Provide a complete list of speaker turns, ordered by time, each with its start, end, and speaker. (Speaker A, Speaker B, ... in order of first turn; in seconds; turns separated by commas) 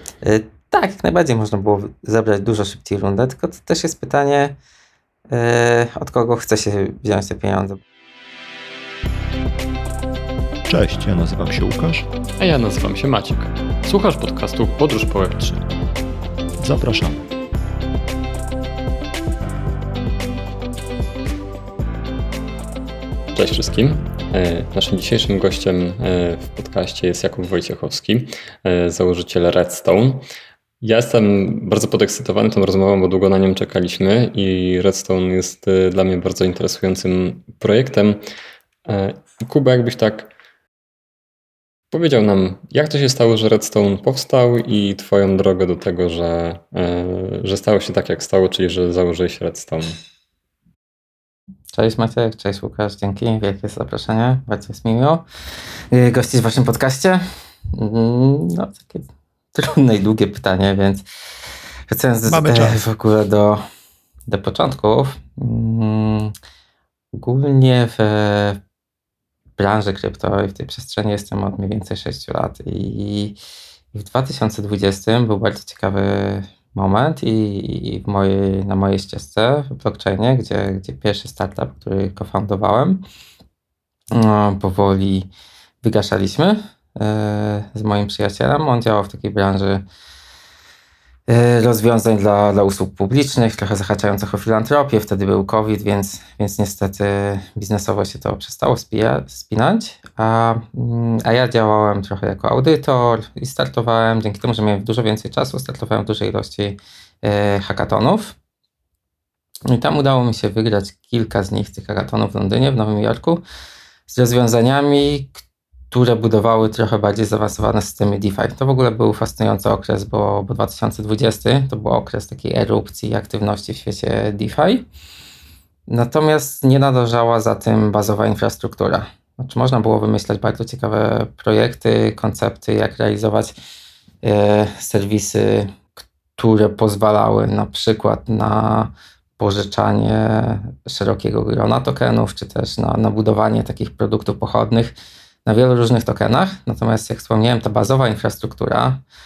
Speaker A: 0.2-4.6, Speaker A: 5.3-7.8, Speaker B: 10.7-12.1, Speaker C: 12.4-15.6, Speaker B: 16.6-17.2, Speaker C: 23.3-30.3, Speaker C: 30.8-38.2, Speaker C: 38.9-40.3, Speaker C: 41.9-50.0, Speaker A: 51.7-55.2, Speaker A: 55.9-61.0, Speaker A: 61.9-63.6, Speaker B: 62.3-62.8, Speaker A: 64.3-66.3, Speaker A: 67.1-68.6, Speaker A: 69.6-73.4, Speaker A: 73.9-83.0, Speaker A: 84.1-85.3, Speaker A: 85.8-89.8, Speaker A: 91.3-108.4, Speaker A: 109.7-113.4, Speaker A: 114.1-115.4, Speaker A: 115.9-124.9, Speaker A: 125.9-133.5, Speaker A: 134.2-144.9, Speaker A: 145.4-149.0